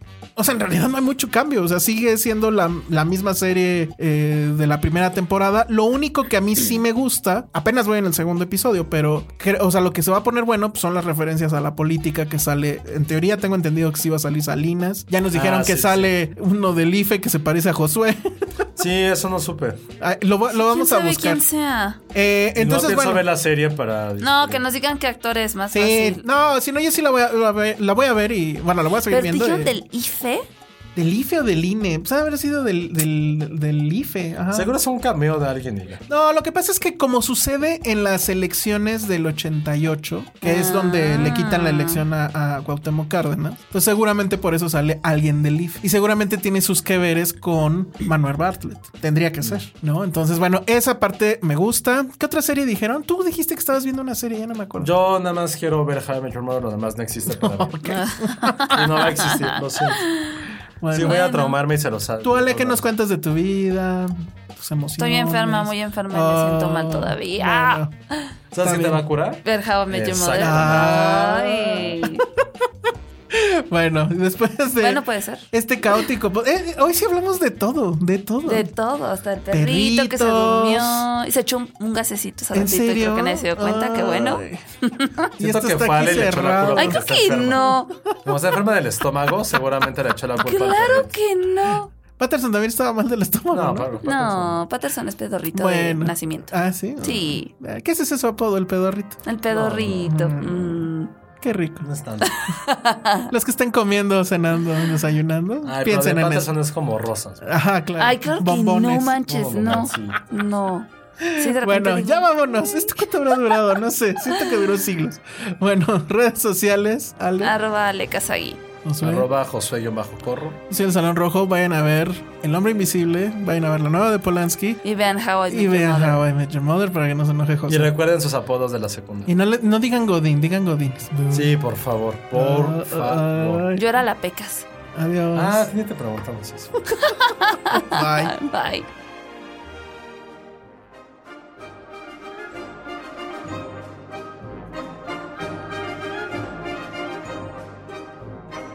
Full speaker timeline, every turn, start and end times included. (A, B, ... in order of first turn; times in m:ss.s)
0:00.4-0:18.7 A
0:15.3-0:16.1 B
0:18.8-0:19.8 B
0:20.0-0:21.4 A
0:20.5-0:22.0 C
0:22.1-0:23.2 A
0:22.6-0:24.6 B
0:24.2-0:26.3 C
0:25.7-0:29.8 A
0:29.1-0:30.5 C
0:31.0-0:34.7 A
0:34.5-0:36.0 B
0:36.1-0:54.9 A
0:40.4-0:42.0 C
0:54.8-0:57.8 B
0:57.3-0:58.8 A
0:57.9-1:00.4 C
0:58.7-1:00.1 B
1:00.8-1:01.2 A
1:00.9-1:02.8 B
1:01.0-1:01.6 C
1:02.2-1:07.9 A
1:05.0-1:08.2 C
1:08.5-1:11.1 B
1:08.6-1:09.0 A
1:09.4-1:12.3 C
1:10.4-1:12.1 A
1:13.3-1:18.7 A
1:14.8-1:15.5 C
1:18.4-1:25.3 C
1:19.5-1:21.1 A
1:22.5-1:24.6 A
1:25.4-1:27.0 A
1:25.4-1:31.2 B
1:26.8-1:28.0 C
1:30.4-1:31.9 C
1:32.2-1:33.9 A
1:33.5-1:34.6 B
1:34.0-1:37.5 C
1:35.5-1:39.2 A
1:39.3-1:41.1 C
1:39.5-1:40.1 B
1:40.0-1:40.9 A
1:41.4-1:41.9 A
1:41.8-1:42.3 B
1:42.2-1:43.3 C
1:43.3-1:46.5 A
1:45.6-1:47.5 B
1:47.4-1:49.2 A
1:48.0-1:53.1 C
1:49.3-1:50.2 B
1:51.3-1:57.6 A
1:57.4-1:58.6 C
1:58.8-1:59.3 A
1:59.0-2:00.6 B
2:00.7-2:04.8 A
2:04.8-2:06.2 C
2:05.5-2:07.9 A
2:07.7-2:09.3 B
2:09.3-2:11.5 A
2:11.3-2:13.6 B
2:12.3-2:13.9 A
2:13.8-2:14.7 C
2:14.9-2:15.7 A
2:15.3-2:16.7 B
2:17.0-2:18.9 C
2:17.7-2:18.4 A